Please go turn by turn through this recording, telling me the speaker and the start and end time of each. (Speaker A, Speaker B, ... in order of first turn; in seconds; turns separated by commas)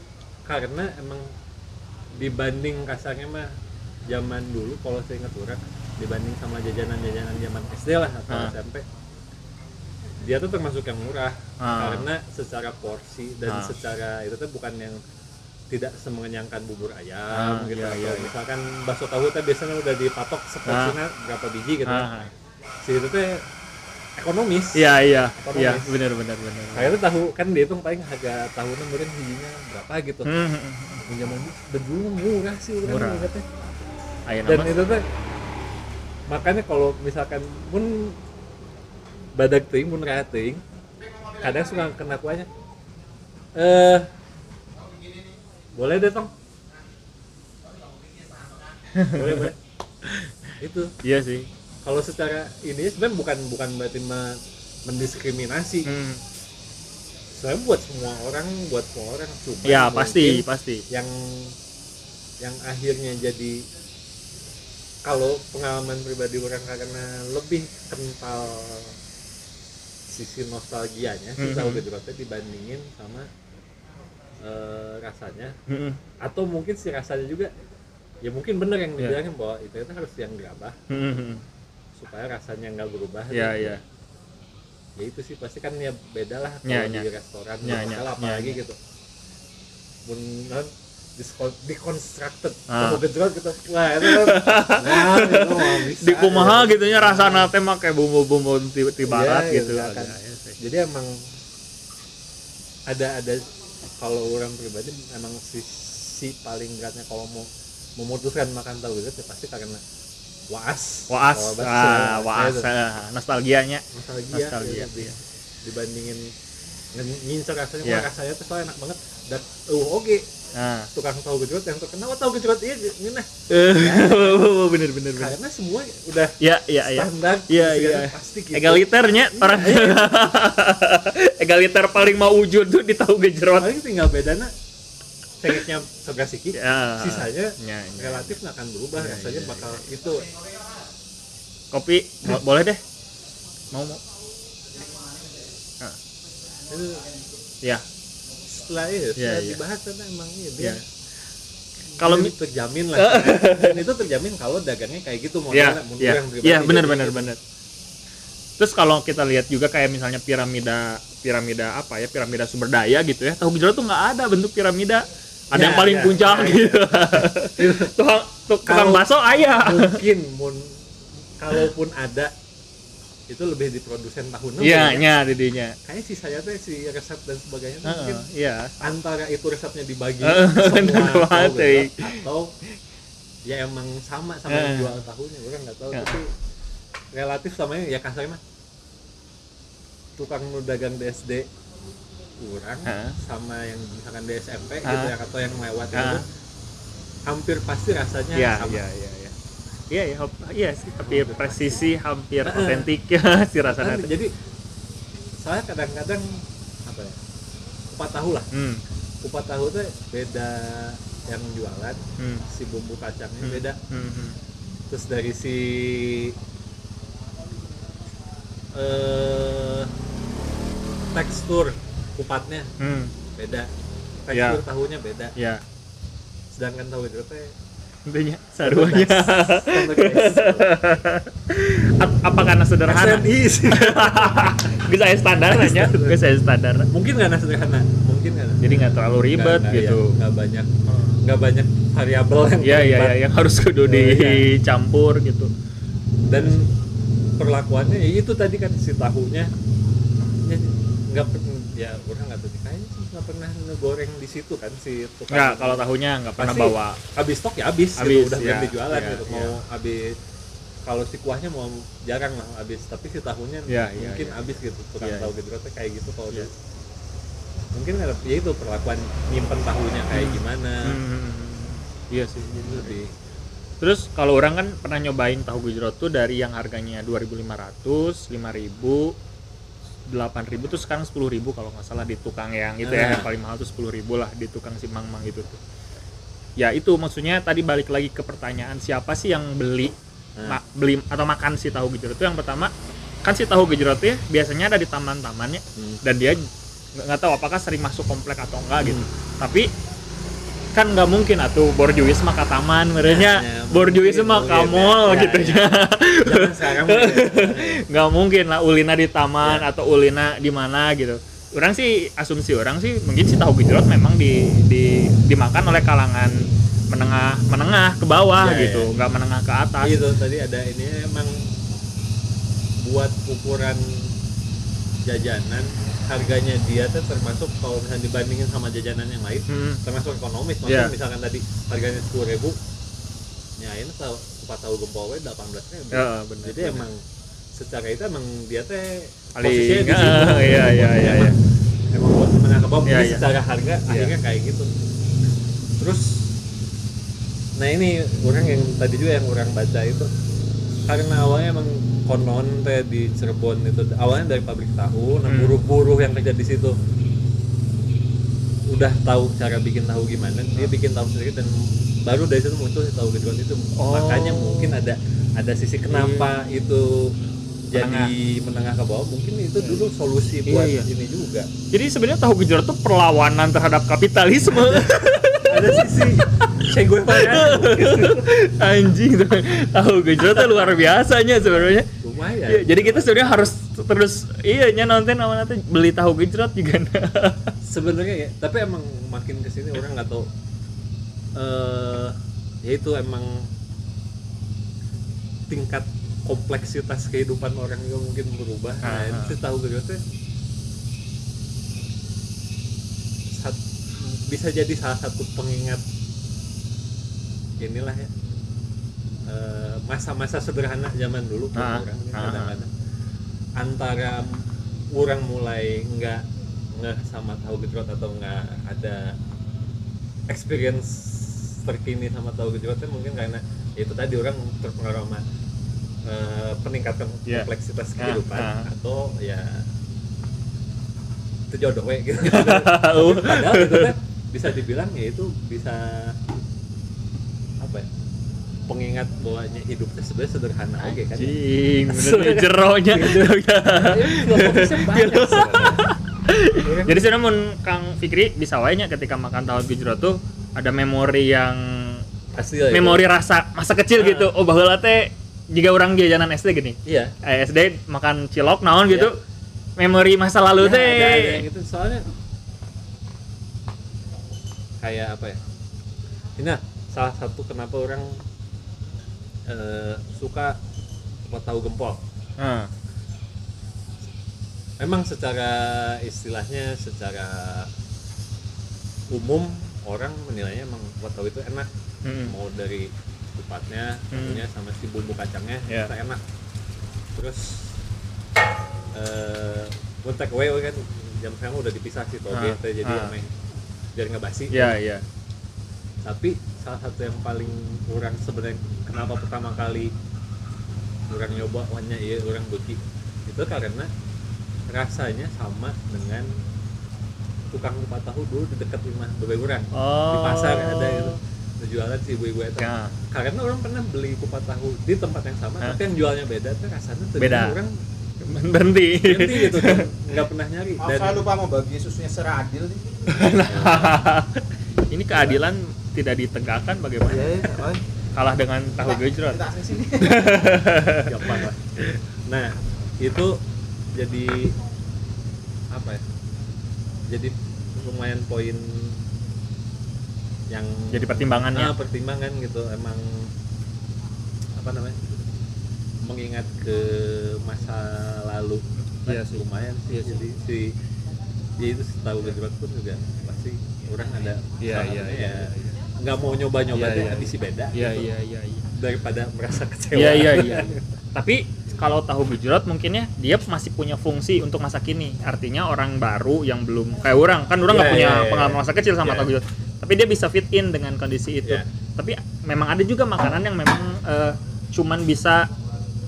Speaker A: 0.5-1.3, Speaker A: 2.1-3.5, Speaker A: 4.1-8.8, Speaker A: 10.2-15.0, Speaker B: 11.6-12.1, Speaker B: 13.5-13.7, Speaker A: 15.7-22.1, Speaker B: 17.3-18.3, Speaker B: 20.7-21.0, Speaker B: 21.9-22.3, Speaker A: 22.8-23.4, Speaker A: 24.2-26.0, Speaker B: 24.8-27.0, Speaker A: 26.7-30.3, Speaker B: 30.3-31.0, Speaker A: 31.1-33.5, Speaker B: 32.9-33.3, Speaker B: 34.3-34.8, Speaker A: 34.5-35.1, Speaker A: 36.3-38.2, Speaker A: 39.4-40.6, Speaker A: 41.4-42.5, Speaker A: 43.5-44.1, Speaker A: 45.8-46.3, Speaker B: 49.0-49.5, Speaker A: 49.1-49.6, Speaker B: 50.0-50.3, Speaker A: 50.6-50.9, Speaker B: 51.0-51.5, Speaker A: 51.8-55.9, Speaker B: 55.9-56.2, Speaker A: 57.3-61.5, Speaker B: 59.6-60.9, Speaker A: 62.4-63.6, Speaker A: 65.0-69.0, Speaker A: 70.1-73.3, Speaker B: 71.4-71.8, Speaker A: 74.4-75.6, Speaker B: 75.7-76.0, Speaker A: 76.2-77.5, Speaker A: 78.2-80.9, Speaker B: 80.9-81.4, Speaker A: 82.0-83.8, Speaker B: 83.3-83.8, Speaker A: 85.0-88.8, Speaker B: 86.7-87.1, Speaker B: 87.6-88.6, Speaker A: 90.1-97.5, Speaker B: 92.7-93.0, Speaker B: 94.0-100.6, Speaker A: 99.0-101.2, Speaker A: 102.9-109.8, Speaker A: 110.5-112.7, Speaker B: 111.1-115.2, Speaker A: 113.9-116.3, Speaker A: 116.9-120.3, Speaker B: 120.5-120.9, Speaker A: 121.0-124.5, Speaker B: 123.5-125.3, Speaker A: 125.1-130.3, Speaker B: 126.4-133.7, Speaker A: 133.6-134.5, Speaker A: 135.4-140.3, Speaker B: 136.5-138.4, Speaker B: 139.0-139.8, Speaker B: 141.7-142.8, Speaker B: 143.7-144.0, Speaker A: 146.7-147.1, Speaker A: 148.4-150.8, Speaker B: 149.2-149.6, Speaker A: 152.0-157.3, Speaker B: 152.0-152.3, Speaker B: 153.0-153.8, Speaker B: 155.5-157.4, Speaker B: 158.6-170.0, Speaker A: 165.5-167.9, Speaker A: 168.7-170.8, Speaker A: 171.4-172.3, Speaker A: 173.3-175.1, Speaker B: 174.6-175.8, Speaker A: 175.8-178.3, Speaker B: 177.8-178.8, Speaker A: 178.8-182.5, Speaker B: 180.2-182.2, Speaker A: 183.5-186.3, Speaker B: 184.5-185.0, Speaker A: 187.1-188.4, Speaker A: 190.2-191.5, Speaker A: 192.4-196.3, Speaker B: 192.9-193.2, Speaker B: 194.8-195.1, Speaker B: 195.9-196.2, Speaker A: 197.3-198.8, Speaker B: 198.3-199.3, Speaker B: 199.9-204.1, Speaker A: 201.0-201.8, Speaker A: 202.4-202.9, Speaker A: 203.7-204.3, Speaker A: 205.4-207.2, Speaker A: 207.9-208.5, Speaker B: 208.5-208.8, Speaker A: 209.2-213.8, Speaker B: 212.2-212.4, Speaker B: 213.4-214.4, Speaker A: 214.9-216.4, Speaker A: 218.7-219.9, Speaker A: 221.1-222.7, Speaker B: 222.8-223.1, Speaker A: 223.4-223.7, Speaker A: 224.2-225.3, Speaker B: 224.3-224.6, Speaker B: 225.4-225.6, Speaker A: 226.5-227.5, Speaker B: 228.1-236.9, Speaker A: 228.6-230.7, Speaker A: 232.9-234.8, Speaker A: 235.4-236.2, Speaker A: 236.9-243.2, Speaker B: 238.6-240.1, Speaker B: 240.9-241.2, Speaker B: 242.6-245.5, Speaker A: 243.8-244.5, Speaker A: 246.3-246.7, Speaker A: 247.4-249.5, Speaker A: 250.4-255.8, Speaker B: 255.3-257.0, Speaker A: 256.4-260.1, Speaker B: 258.0-259.6, Speaker A: 260.9-266.5, Speaker B: 263.7-265.3, Speaker A: 267.7-271.0, Speaker B: 270.1-273.0, Speaker A: 272.6-273.1, Speaker B: 273.8-279.1, Speaker B: 280.1-285.6, Speaker A: 282.8-283.3, Speaker B: 286.6-292.7, Speaker B: 293.2-299.7, Speaker A: 295.8-296.0, Speaker A: 298.8-299.1, Speaker B: 300.7-320.0, Speaker A: 303.0-307.8, Speaker A: 309.4-309.7, Speaker A: 318.4-318.9, Speaker A: 319.8-321.4, Speaker A: 322.8-324.1, Speaker A: 325.1-332.6, Speaker B: 329.5-329.8, Speaker B: 330.7-330.9, Speaker A: 333.6-341.4, Speaker B: 335.9-336.9, Speaker B: 339.4-341.4, Speaker A: 341.9-344.7, Speaker B: 342.9-343.3, Speaker A: 345.8-346.4, Speaker A: 347.6-350.1, Speaker A: 350.9-356.8, Speaker B: 355.3-355.6, Speaker A: 358.7-367.2, Speaker B: 363.8-364.8, Speaker B: 365.9-366.3, Speaker A: 367.7-371.5, Speaker B: 367.7-368.1, Speaker B: 369.6-369.9, Speaker B: 370.4-370.9, Speaker B: 371.7-376.3, Speaker A: 374.6-378.3, Speaker B: 377.1-381.9, Speaker A: 380.2-383.5, Speaker B: 382.5-387.5, Speaker A: 387.6-390.3, Speaker A: 391.4-393.5, Speaker A: 395.5-400.0, Speaker B: 398.8-399.4, Speaker A: 403.3-405.9, Speaker A: 407.6-408.1, Speaker A: 409.3-412.7, Speaker B: 411.6-412.6, Speaker A: 413.6-419.2, Speaker A: 420.3-425.2, Speaker A: 426.1-429.7, Speaker B: 427.3-428.7, Speaker A: 431.5-436.3, Speaker B: 432.2-433.9, Speaker A: 437.6-437.9, Speaker A: 438.7-445.9, Speaker B: 440.8-452.0, Speaker A: 446.6-447.1, Speaker A: 452.4-453.1, Speaker B: 452.7-459.2, Speaker A: 453.9-454.3, Speaker A: 456.9-457.1, Speaker A: 458.9-459.1, Speaker B: 459.8-461.4, Speaker A: 460.6-462.1, Speaker A: 464.8-465.4, Speaker A: 466.4-468.2, Speaker A: 469.5-470.6, Speaker A: 471.2-472.0, Speaker B: 472.4-472.7, Speaker A: 474.8-477.7, Speaker A: 479.1-481.7, Speaker B: 482.1-482.4, Speaker A: 482.2-486.2, Speaker B: 484.1-484.4, Speaker A: 487.1-487.8, Speaker A: 488.9-493.3, Speaker B: 492.3-493.1, Speaker A: 493.9-494.8, Speaker B: 494.5-495.1, Speaker A: 496.0-499.9, Speaker A: 501.1-503.9, Speaker A: 504.7-506.3, Speaker A: 507.5-517.8, Speaker B: 509.7-511.2, Speaker B: 512.6-513.0, Speaker B: 517.2-517.6, Speaker B: 518.2-519.9, Speaker A: 518.9-521.3, Speaker C: 520.8-523.1, Speaker B: 523.1-527.6, Speaker A: 523.4-524.0, Speaker A: 525.1-525.4, Speaker C: 527.1-527.8, Speaker B: 528.1-529.4, Speaker C: 528.8-530.3, Speaker B: 530.0-531.5, Speaker A: 531.0-533.4, Speaker A: 533.9-534.5, Speaker A: 535.7-536.0, Speaker A: 537.1-539.0, Speaker A: 540.5-543.3, Speaker B: 540.9-541.7, Speaker A: 544.5-545.3, Speaker A: 546.0-550.8, Speaker B: 548.8-550.2, Speaker A: 551.6-558.1, Speaker B: 554.6-555.8, Speaker B: 556.7-558.7, Speaker A: 558.7-560.8, Speaker B: 559.9-575.5, Speaker A: 567.7-569.3